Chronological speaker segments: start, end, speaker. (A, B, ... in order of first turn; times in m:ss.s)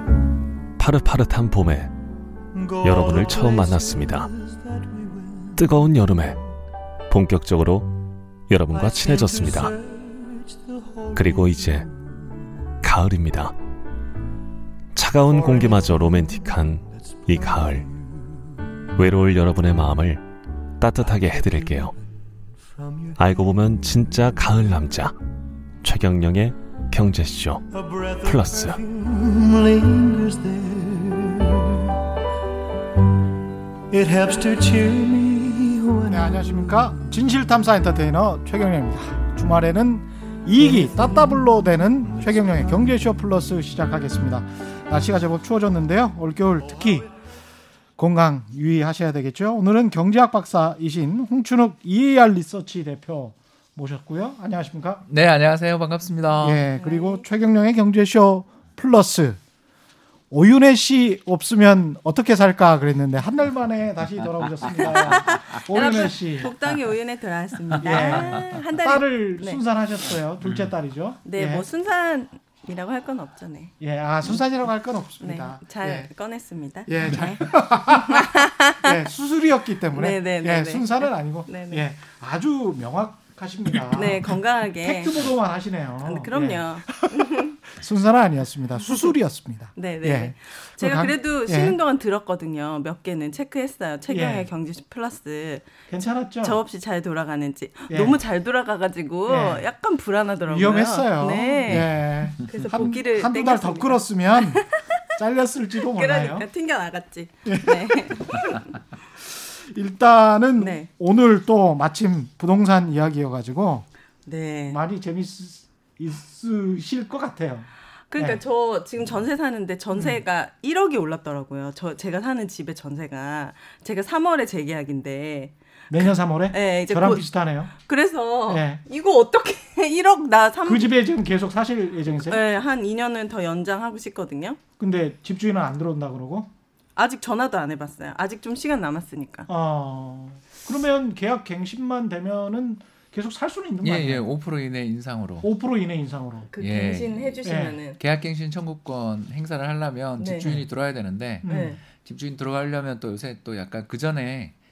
0:00.8-0:01.9 A
0:02.5-0:05.9 B
0:02.8-0:04.3 A
0:05.6-0:06.4 A
0:07.1-0:07.9 A
0:08.5-0:09.7 A
0:08.7-0:12.1 B
0:11.1-0:11.9 A
0:12.8-0:13.5 A
0:14.9-0:17.9 A
0:15.2-0:18.3 B
0:19.0-0:20.2 A
0:20.8-0:21.9 A
0:21.0-0:23.7 B
0:23.2-0:25.1 A
0:25.8-0:27.6 A
0:27.7-0:31.8 B
0:28.2-0:28.8 A
0:33.9-0:37.2 B
0:36.1-0:47.1 C
0:40.7-0:41.4 B
0:42.1-0:43.1 B
0:48.0-0:55.0 C
0:55.1-0:56.6 D
0:56.4-0:59.4 C
0:56.4-0:57.2 E
1:00.3-1:06.5 C
1:04.2-1:06.8 D
1:04.9-1:09.6 E
1:07.8-1:08.6 D
1:07.8-1:11.6 C
1:10.4-1:10.7 D
1:11.2-1:14.4 E
1:13.8-1:16.1 C
1:15.2-1:19.0 E
1:16.9-1:31.8 C
1:17.1-1:17.4 D
1:19.9-1:21.8 E
1:23.9-1:25.2 E
1:26.0-1:27.6 E
1:29.8-1:35.7 E
1:34.1-1:34.5 C
1:35.9-1:36.6 C
1:36.4-1:45.0 E
1:37.9-1:38.2 C
1:39.3-1:39.6 C
1:40.5-1:46.4 C
1:45.9-1:48.8 E
1:47.4-1:48.2 C
1:49.3-1:53.8 C
1:50.6-1:50.9 E
1:54.2-1:54.8 E
1:54.7-1:58.4 C
1:58.1-2:10.9 E
2:05.9-2:07.7 C
2:08.5-2:08.8 C
2:10.6-2:12.4 C
2:12.2-2:14.6 E
2:14.8-2:16.5 C
2:17.0-2:19.5 E
2:19.5-2:24.2 C
2:23.8-2:25.5 D
2:25.4-2:26.5 C
2:26.5-2:28.0 E
2:26.6-2:34.5 D
2:27.4-2:27.8 C
2:30.2-2:30.5 E
2:30.4-2:30.7 C
2:31.4-2:31.8 C
2:31.4-2:31.8 E